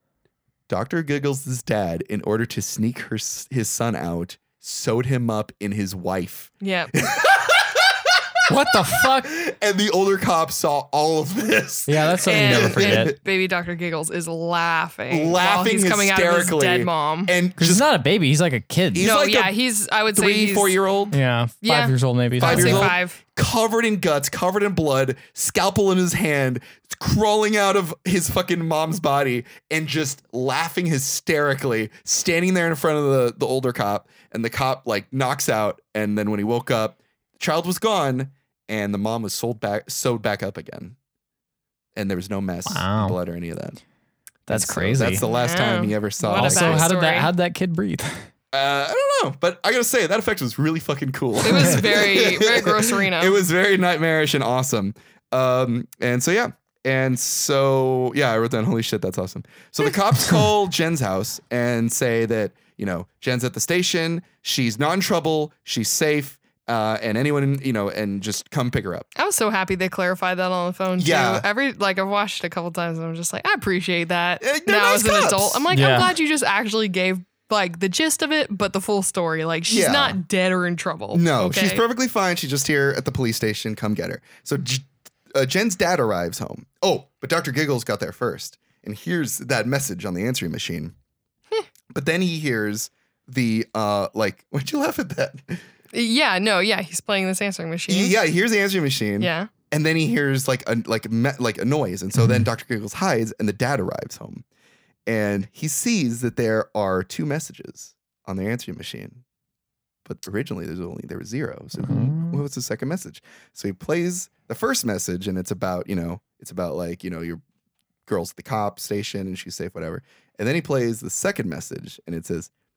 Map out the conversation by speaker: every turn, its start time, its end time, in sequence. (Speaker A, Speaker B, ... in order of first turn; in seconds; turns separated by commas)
Speaker A: 0.7-13.2, Speaker B: 6.6-6.9, Speaker C: 8.5-9.3, Speaker C: 11.9-13.1, Speaker B: 12.2-17.3, Speaker A: 15.1-17.9, Speaker C: 17.6-19.1, Speaker A: 18.9-19.5, Speaker B: 19.0-20.7, Speaker A: 20.1-21.1, Speaker C: 21.1-22.9, Speaker B: 21.6-23.2, Speaker A: 22.4-41.0, Speaker A: 42.0-43.8, Speaker C: 42.7-43.2, Speaker C: 44.5-45.2, Speaker A: 44.5-46.9, Speaker B: 45.2-47.3, Speaker C: 46.3-48.3, Speaker A: 48.5-69.0, Speaker B: 51.4-53.4, Speaker B: 69.2-81.8, Speaker A: 71.0-71.4, Speaker A: 74.4-76.0, Speaker C: 75.7-76.1, Speaker A: 79.7-80.2, Speaker A: 81.1-90.9, Speaker A: 91.9-95.6, Speaker B: 95.9-98.2, Speaker A: 97.9-104.4, Speaker B: 99.2-99.5, Speaker C: 102.2-102.4, Speaker A: 105.1-109.2, Speaker A: 110.0-117.4, Speaker C: 111.8-112.4, Speaker A: 118.0-122.5